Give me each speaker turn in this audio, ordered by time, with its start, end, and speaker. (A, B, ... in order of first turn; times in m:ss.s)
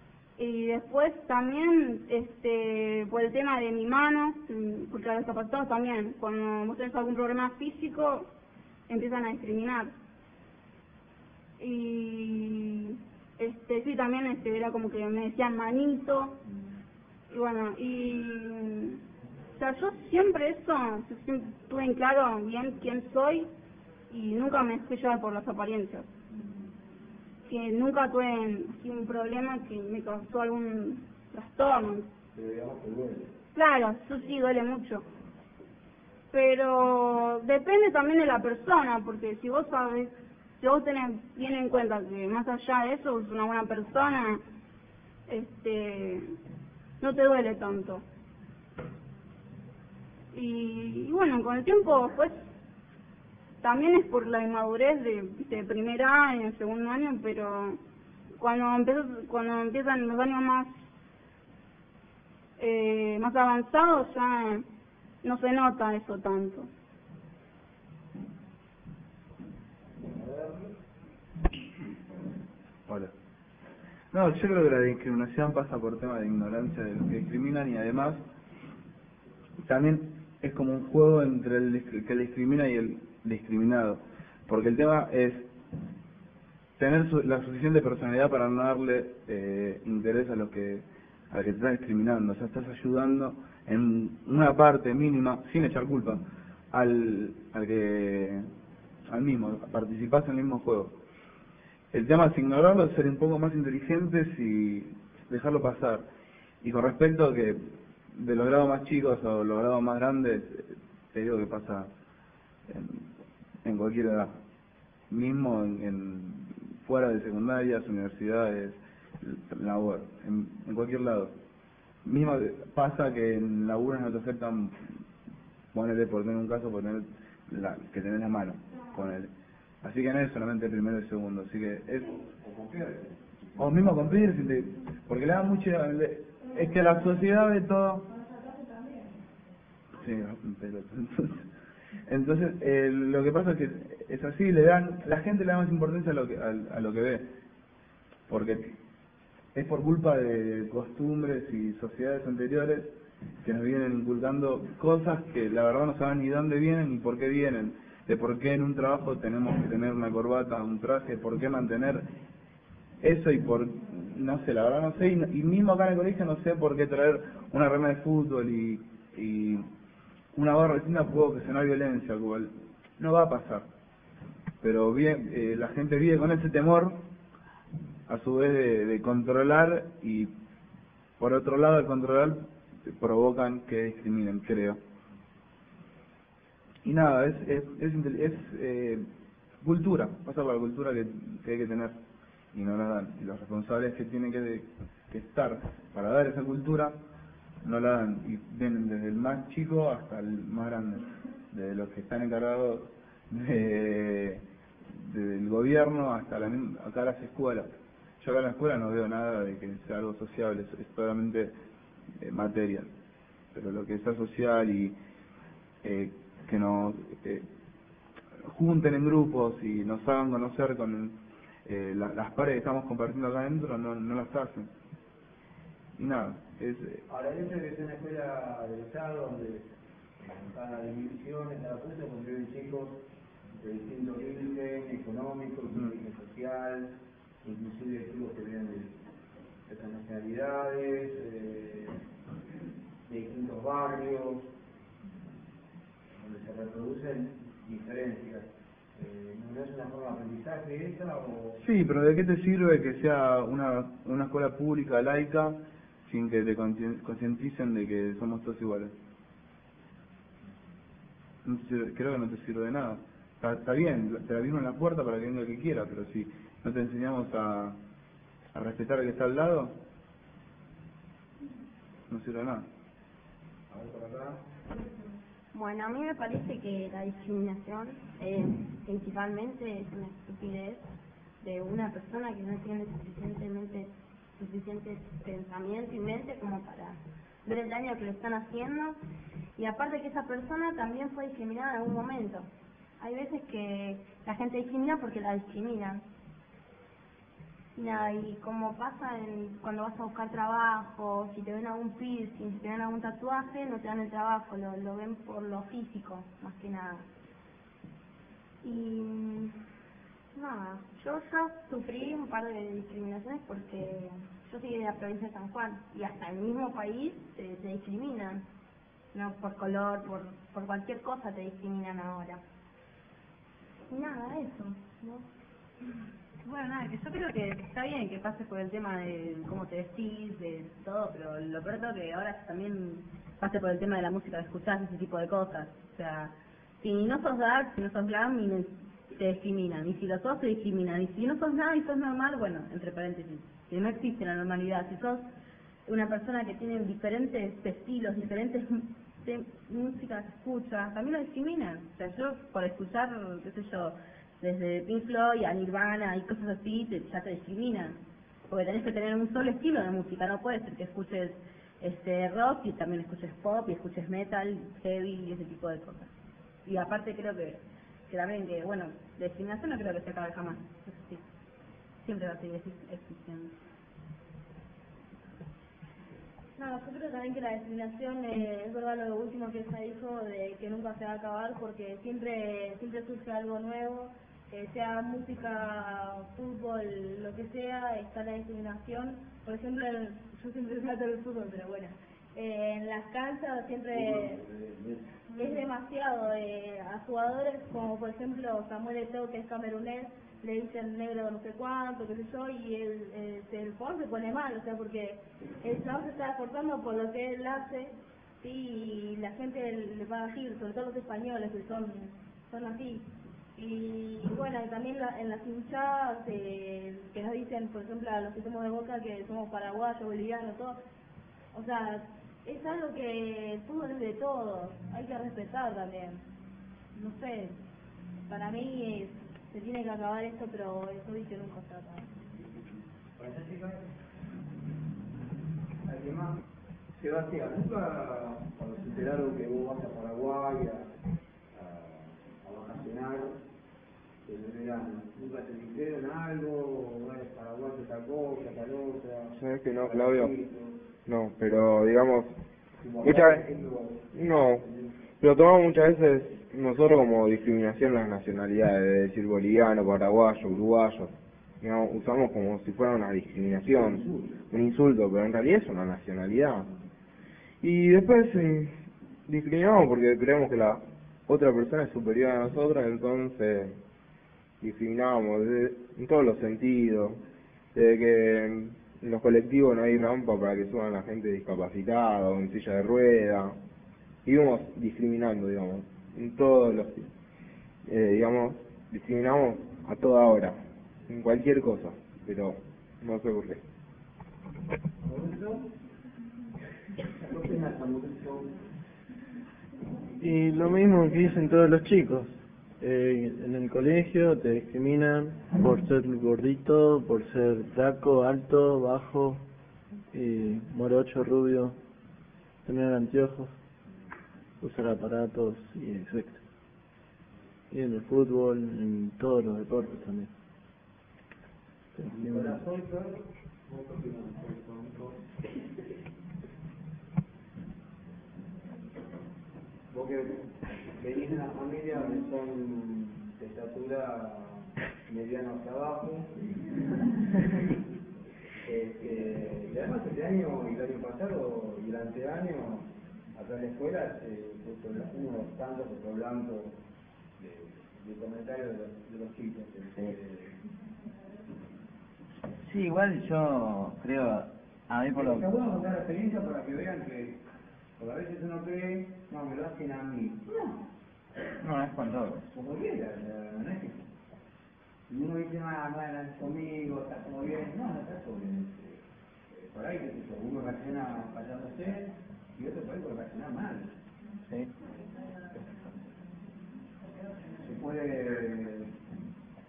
0:00.4-0:08.3 A
0:08.9-0:09.9 A
0:11.6-0:16.4 A
0:17.3-0:19.0 A
0:19.6-0:23.5 A
0:24.1-0:26.1 A
0:27.5-0:32.1 A
0:32.3-0:33.3 B
0:33.5-0:35.0 A
0:36.3-0:44.4 A
0:45.3-0:46.3 A
0:47.0-0:48.0 A
0:50.3-0:52.4 A
0:53.6-0:57.8 A
0:58.4-1:00.8 A
1:02.6-1:04.6 A
1:05.2-1:06.7 A
1:10.0-1:10.7 B
1:12.9-1:13.1 C
1:14.1-1:18.2 C
1:19.6-1:25.5 C
1:26.8-1:36.2 C
1:36.7-1:38.5 C
1:39.1-1:40.9 C
1:41.9-1:46.0 C
1:46.6-1:51.9 C
1:52.7-1:53.0 C
1:53.6-1:54.3 C
1:55.1-2:01.3 C
2:02.0-2:04.8 C
2:05.7-2:09.3 C
2:09.8-2:12.1 C
2:12.4-2:14.4 B
2:13.6-2:18.1 C
2:19.9-2:21.4 C
2:22.1-2:27.3 C
2:28.3-2:28.7 C
2:29.5-2:32.9 C
2:33.4-2:42.1 C
2:43.0-2:49.6 C
2:50.3-2:53.7 C
2:54.6-2:57.0 C
2:58.1-3:00.3 C
3:01.2-3:04.8 C
3:06.8-3:09.0 C
3:09.6-3:12.0 C
3:12.5-3:17.0 C
3:17.6-3:31.5 C
3:32.2-3:32.9 C
3:33.5-3:34.9 C
3:35.8-3:37.4 C
3:38.4-3:44.7 C
3:46.0-3:47.0 C
3:47.1-3:49.7 B
3:50.2-3:53.0 B
3:53.5-3:59.0 B
3:59.7-4:02.0 B
4:03.0-4:04.5 B
4:06.2-4:11.6 B
4:11.6-4:18.9 C
4:21.4-4:27.8 C
4:28.5-4:29.7 C
4:32.1-4:32.7 C
4:33.7-4:34.4 B
4:35.5-4:40.8 D
4:41.4-4:49.0 D
4:49.6-4:56.0 D
4:57.8-5:07.1 D
5:08.6-5:09.6 D
5:10.3-5:18.4 D
5:19.1-5:22.4 D
5:23.9-5:25.2 D
5:26.4-5:45.3 E
5:45.8-6:06.1 E
6:06.6-6:11.2 E
6:12.0-6:13.5 E
6:16.6-6:34.4 F
6:33.9-6:35.0 B
6:35.3-7:00.8 F
7:01.5-7:06.2 F
7:06.9-7:07.6 F
7:08.3-7:12.1 F
7:13.2-7:13.8 B
7:15.8-7:16.4 B
7:16.9-7:20.9 B
7:21.5-7:23.4 B
7:24.2-7:30.7 B
7:29.3-7:30.4 G
7:31.0-7:32.3 G
7:32.8-7:34.1 B
7:33.0-7:33.4 G
7:34.1-7:34.6 G
7:35.2-7:46.7 G
7:43.5-7:44.4 B
7:47.6-7:53.8 G
7:54.6-7:57.2 G
7:57.7-8:03.6 G
8:04.2-8:07.1 G
8:07.8-8:13.6 G
8:15.0-8:15.6 B
8:17.2-8:18.6 B
8:20.2-8:29.4 H
8:30.1-8:31.8 H
8:32.6-8:33.5 H
8:34.6-8:36.4 H
8:37.7-8:40.3 H
8:42.0-8:42.6 H
8:42.1-8:45.2 B
8:49.9-8:56.3 B
8:58.6-9:06.8 B
9:07.4-9:10.5 B
9:09.9-9:10.2 I
9:12.6-9:15.5 I
9:15.1-9:17.4 B
9:18.0-9:20.5 B
9:21.6-9:22.4 I
9:22.4-9:24.0 B
9:25.1-9:29.0 B
9:29.5-9:33.9 B
9:37.6-9:38.9 B